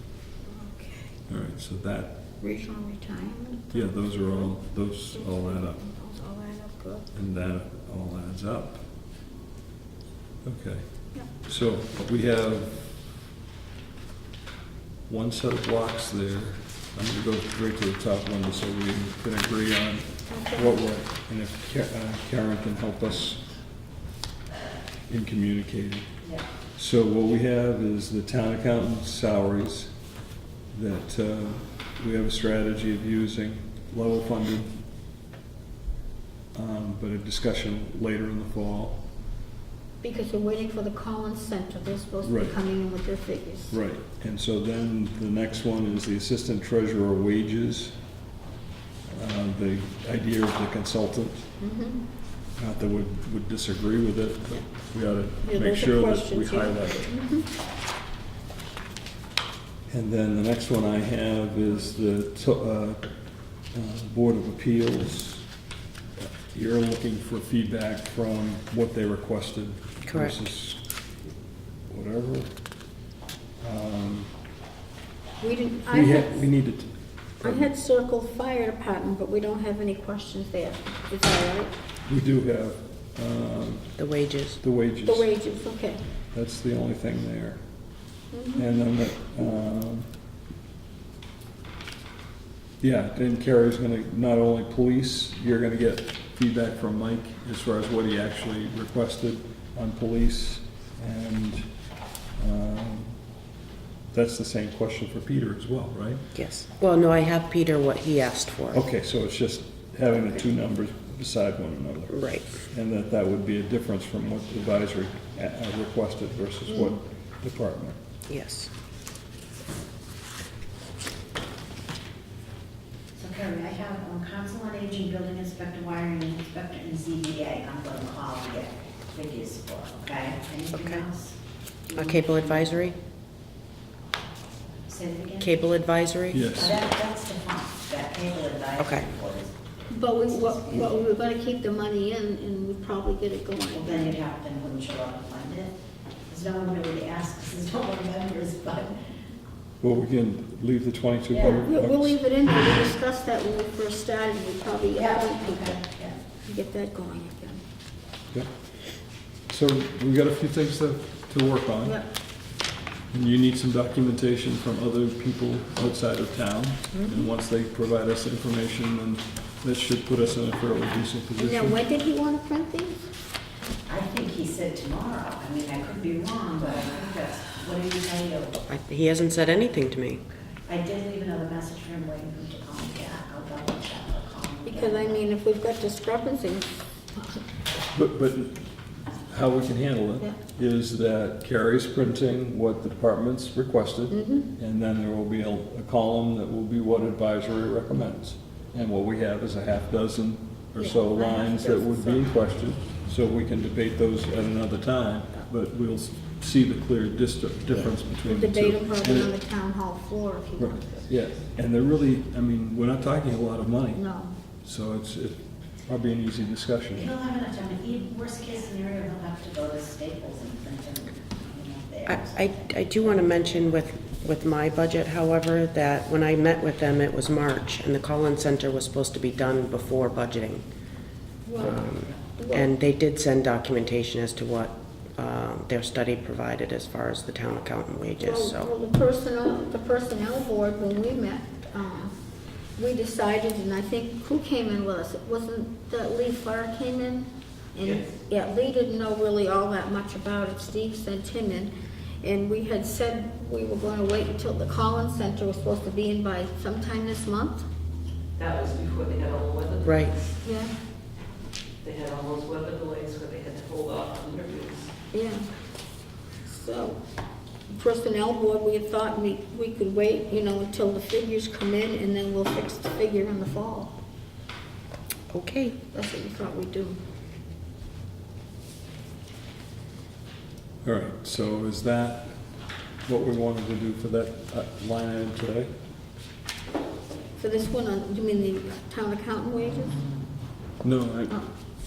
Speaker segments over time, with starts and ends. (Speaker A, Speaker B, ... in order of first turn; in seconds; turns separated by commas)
Speaker A: 0.5-1.2, Speaker B: 1.3-2.1, Speaker A: 2.4-4.5, Speaker B: 3.7-5.8, Speaker A: 5.1-7.1, Speaker B: 7.1-8.8, Speaker B: 10.4-13.0, Speaker B: 15.1-23.4, Speaker A: 20.3-20.8, Speaker B: 25.1-26.1, Speaker B: 26.8-29.9, Speaker B: 30.7-34.8, Speaker B: 36.5-39.1, Speaker A: 40.0-43.8, Speaker B: 42.2-42.5, Speaker B: 43.7-48.0, Speaker B: 49.1-51.5, Speaker A: 51.6-52.0, Speaker B: 52.6-57.1, Speaker A: 55.4-57.5, Speaker B: 59.9-63.1, Speaker B: 63.7-65.5, Speaker B: 66.2-70.8, Speaker C: 70.0-70.4, Speaker B: 71.9-72.5, Speaker B: 73.6-74.4, Speaker A: 75.4-76.4, Speaker B: 75.9-77.7, Speaker A: 77.4-81.7, Speaker B: 82.1-83.9, Speaker C: 84.0-84.6, Speaker B: 84.6-85.3, Speaker A: 85.1-86.0, Speaker B: 86.3-87.6, Speaker A: 88.3-88.7, Speaker B: 88.5-90.1, Speaker B: 92.8-101.7, Speaker B: 102.4-103.2, Speaker B: 104.1-106.2, Speaker C: 106.3-108.8, Speaker B: 108.7-118.0, Speaker C: 112.1-112.6, Speaker C: 118.3-118.7, Speaker D: 123.2-131.3, Speaker C: 130.7-131.1, Speaker D: 131.9-132.7, Speaker C: 131.9-133.0, Speaker D: 134.9-135.5, Speaker C: 135.4-136.8, Speaker B: 136.3-136.8, Speaker D: 136.6-139.5, Speaker C: 138.8-139.1, Speaker A: 139.9-144.2, Speaker D: 140.3-140.9, Speaker D: 143.7-145.8, Speaker D: 146.3-149.0, Speaker B: 149.8-152.2, Speaker A: 151.4-155.8, Speaker D: 154.9-156.2, Speaker A: 156.4-157.6, Speaker B: 158.3-159.0, Speaker B: 159.5-162.0, Speaker B: 163.1-171.8, Speaker A: 171.4-173.1, Speaker D: 173.9-178.6, Speaker C: 178.7-180.2, Speaker D: 180.7-185.2, Speaker A: 184.7-187.4, Speaker B: 187.9-188.6, Speaker B: 189.3-209.4, Speaker A: 194.1-194.5, Speaker A: 200.8-202.3, Speaker A: 208.2-211.1, Speaker B: 210.6-214.0, Speaker A: 213.9-214.3, Speaker B: 214.6-217.1, Speaker D: 217.0-222.6, Speaker C: 222.1-230.6, Speaker A: 231.5-232.7, Speaker C: 231.6-238.7, Speaker A: 238.2-242.2, Speaker A: 242.8-251.7, Speaker E: 247.8-248.2, Speaker A: 252.2-257.6, Speaker E: 258.4-260.4, Speaker C: 259.8-260.1, Speaker A: 260.4-260.7, Speaker E: 261.8-264.9, Speaker A: 265.1-265.5, Speaker A: 266.4-267.0, Speaker A: 267.7-273.9, Speaker C: 275.3-275.8, Speaker A: 275.9-277.0, Speaker B: 280.8-282.4, Speaker B: 283.0-285.7, Speaker A: 287.4-290.0, Speaker B: 290.8-291.4